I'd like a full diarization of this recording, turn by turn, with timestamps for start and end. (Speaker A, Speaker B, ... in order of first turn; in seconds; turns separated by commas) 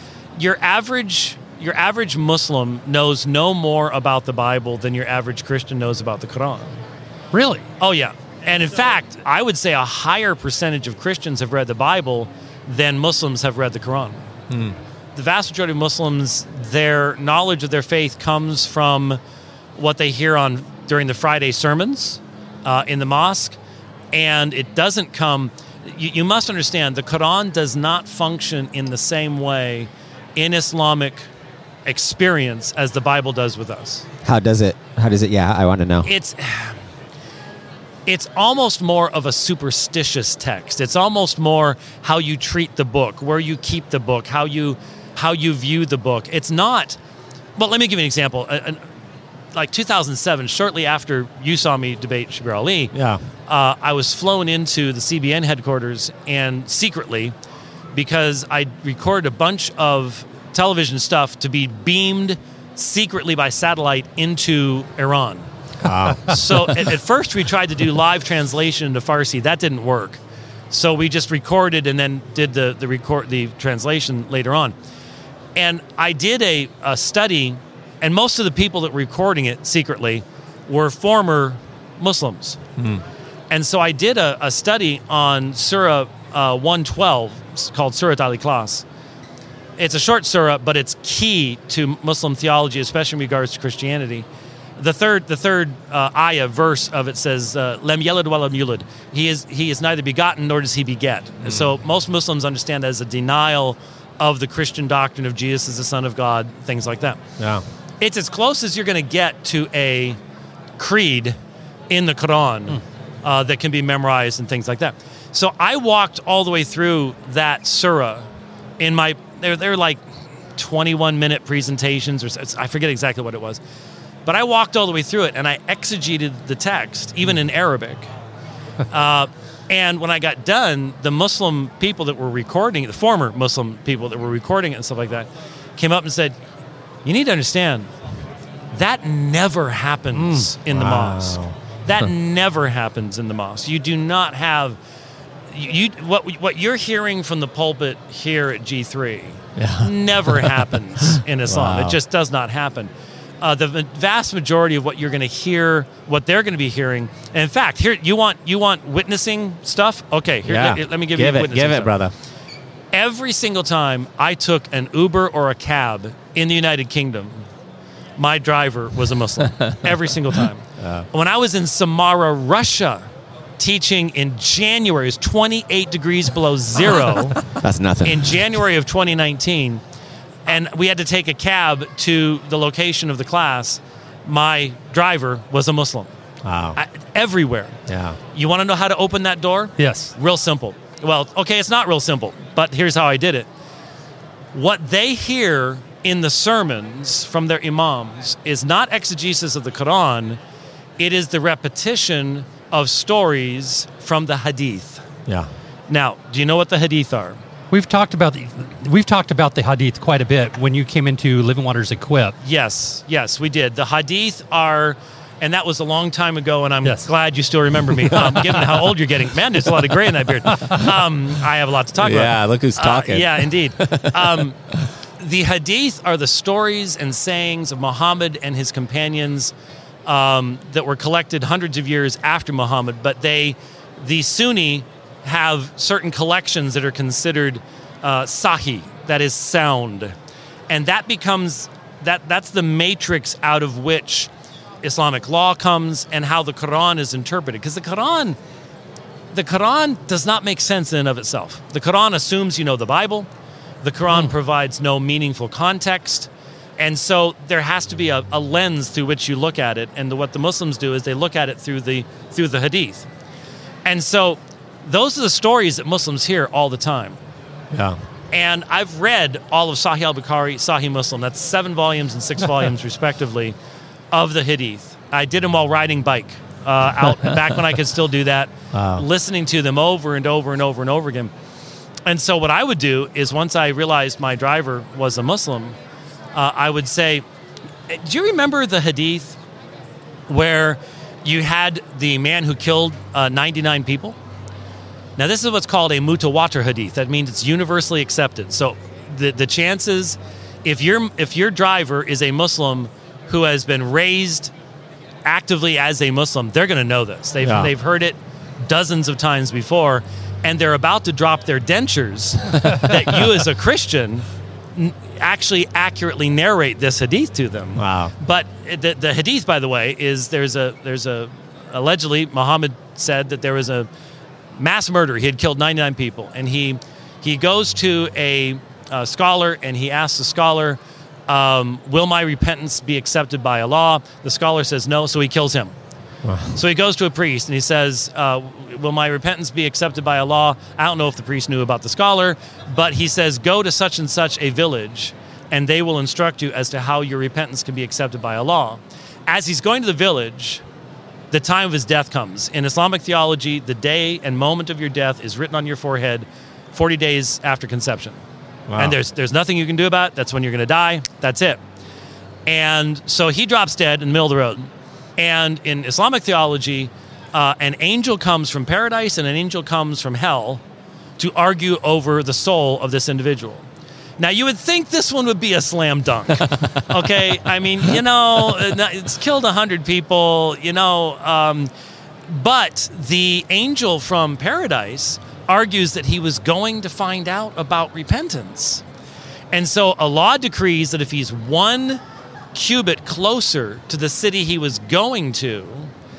Speaker A: 0.4-6.7, Speaker B: 7.3-7.7, Speaker A: 7.8-14.2, Speaker A: 15.2-19.2, Speaker A: 19.8-23.6, Speaker A: 24.1-31.3, Speaker A: 31.9-34.1, Speaker C: 34.2-36.1, Speaker A: 36.0-36.8, Speaker A: 38.1-47.0, Speaker A: 47.6-48.8, Speaker A: 49.5-52.9, Speaker D: 52.9-53.2, Speaker A: 53.5-57.3, Speaker A: 57.9-65.5, Speaker D: 65.8-66.7, Speaker A: 66.2-70.2, Speaker A: 70.7-74.7, Speaker A: 75.6-82.6, Speaker D: 82.8-83.0, Speaker A: 83.5-88.8, Speaker A: 89.8-94.3, Speaker A: 94.8-107.2, Speaker A: 108.0-110.2, Speaker A: 110.8-111.4, Speaker A: 111.9-118.3, Speaker A: 118.8-120.0, Speaker A: 120.6-123.6, Speaker A: 124.3-128.1, Speaker A: 128.9-136.4, Speaker A: 137.1-137.9, Speaker A: 138.7-144.8, Speaker B: 140.2-140.5, Speaker D: 140.7-142.1, Speaker A: 145.5-161.9, Speaker D: 149.6-152.0, Speaker D: 160.4-162.1, Speaker A: 162.9-167.4, Speaker A: 168.2-173.0, Speaker D: 170.8-171.1, Speaker A: 173.6-177.4, Speaker C: 177.6-178.5, Speaker A: 178.0-179.8, Speaker A: 180.5-186.1, Speaker D: 186.4-186.8, Speaker A: 186.8-187.8, Speaker D: 187.9-188.2, Speaker A: 188.3-193.5, Speaker B: 189.8-190.1, Speaker A: 194.5-200.4, Speaker A: 201.0-205.1, Speaker A: 205.9-207.4, Speaker B: 207.7-212.3, Speaker A: 212.4-224.6, Speaker B: 218.1-218.7, Speaker D: 221.9-224.5, Speaker A: 225.2-229.5, Speaker A: 230.1-240.1, Speaker A: 240.7-244.3, Speaker A: 244.8-248.4, Speaker A: 249.3-253.3, Speaker A: 253.8-263.1, Speaker A: 263.9-267.2, Speaker D: 267.7-268.0, Speaker A: 268.3-273.6, Speaker A: 274.1-281.3, Speaker D: 278.7-279.1, Speaker A: 282.1-285.8, Speaker A: 286.3-287.2, Speaker A: 287.9-289.4, Speaker A: 290.3-294.2, Speaker A: 295.2-304.5, Speaker A: 305.2-323.9, Speaker D: 307.4-307.7, Speaker D: 317.8-318.1, Speaker A: 324.6-335.7, Speaker D: 336.2-336.6, Speaker A: 336.5-350.6, Speaker A: 351.3-358.2, Speaker D: 358.7-359.0, Speaker A: 358.8-361.6, Speaker A: 362.5-370.6, Speaker A: 371.2-373.7, Speaker A: 374.2-381.7, Speaker A: 382.3-388.8, Speaker A: 389.5-392.0, Speaker A: 392.5-395.9